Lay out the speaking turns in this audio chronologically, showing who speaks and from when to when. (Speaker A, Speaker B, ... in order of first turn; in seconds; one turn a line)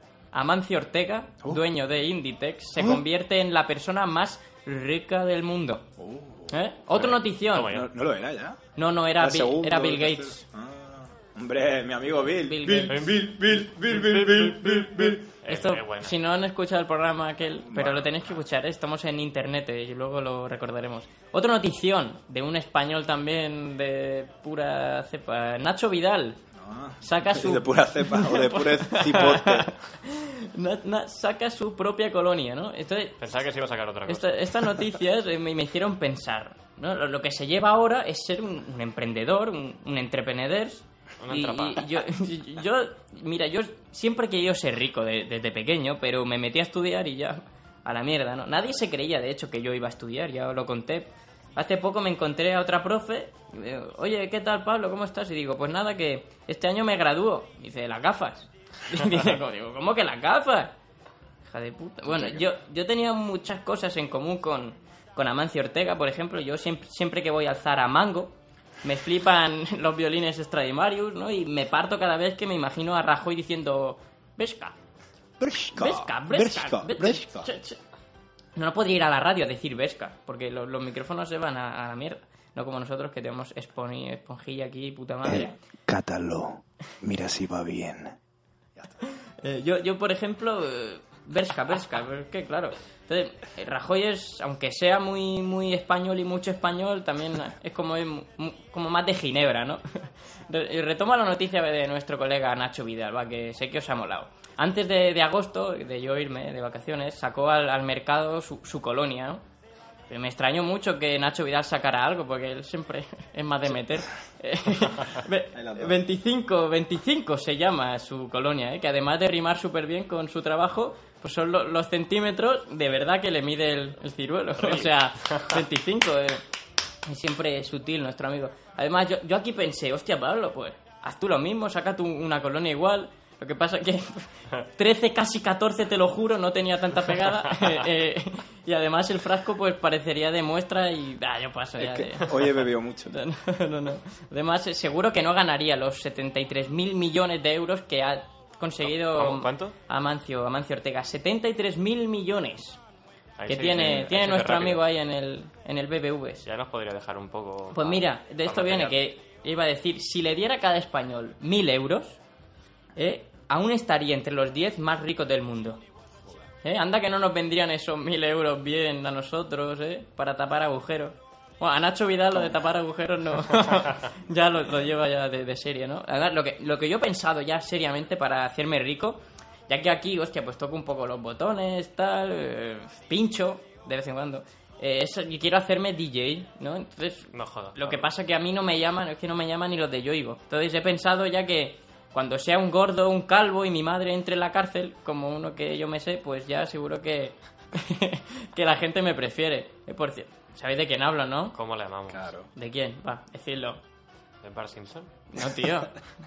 Speaker A: 0.3-5.9
Speaker B: 6.0-6.5
Speaker A: 6.5-7.8
Speaker C: 6.9-7.9
Speaker B: 7.6-8.6
Speaker A: 8.8-10.4
Speaker B: 9.1-15.2
Speaker A: 12.4-13.1
Speaker C: 12.9-16.2
Speaker A: 15.4-26.4
Speaker B: 17.6-18.4
Speaker B: 26.5-29.7
Speaker A: 27.0-33.2
Speaker C: 33.2-34.8
Speaker A: 34.1-60.7
Speaker C: 41.2-42.0
Speaker A: 61.5-74.8
Speaker B: 62.1-62.4
Speaker B: 75.4-77.5
Speaker A: 75.7-77.8
Speaker A: 78.5-85.6
Speaker B: 85.2-88.2
Speaker A: 89.1-109.4
Speaker A: 110.1-126.4
Speaker B: 115.5-116.0
Speaker C: 124.6-125.6
Speaker A: 127.0-152.8
Speaker B: 141.8-143.2
Speaker C: 148.8-149.7
Speaker C: 153.4-154.8
Speaker A: 153.5-156.5
Speaker C: 156.4-159.0
Speaker A: 157.7-162.2
Speaker A: 162.9-165.8
Speaker A: 166.6-201.6
Speaker C: 187.3-188.1
Speaker C: 201.5-202.3
Speaker B: 202.1-202.5
Speaker A: 202.5-203.8
Speaker C: 204.4-205.1
Speaker A: 205.3-205.9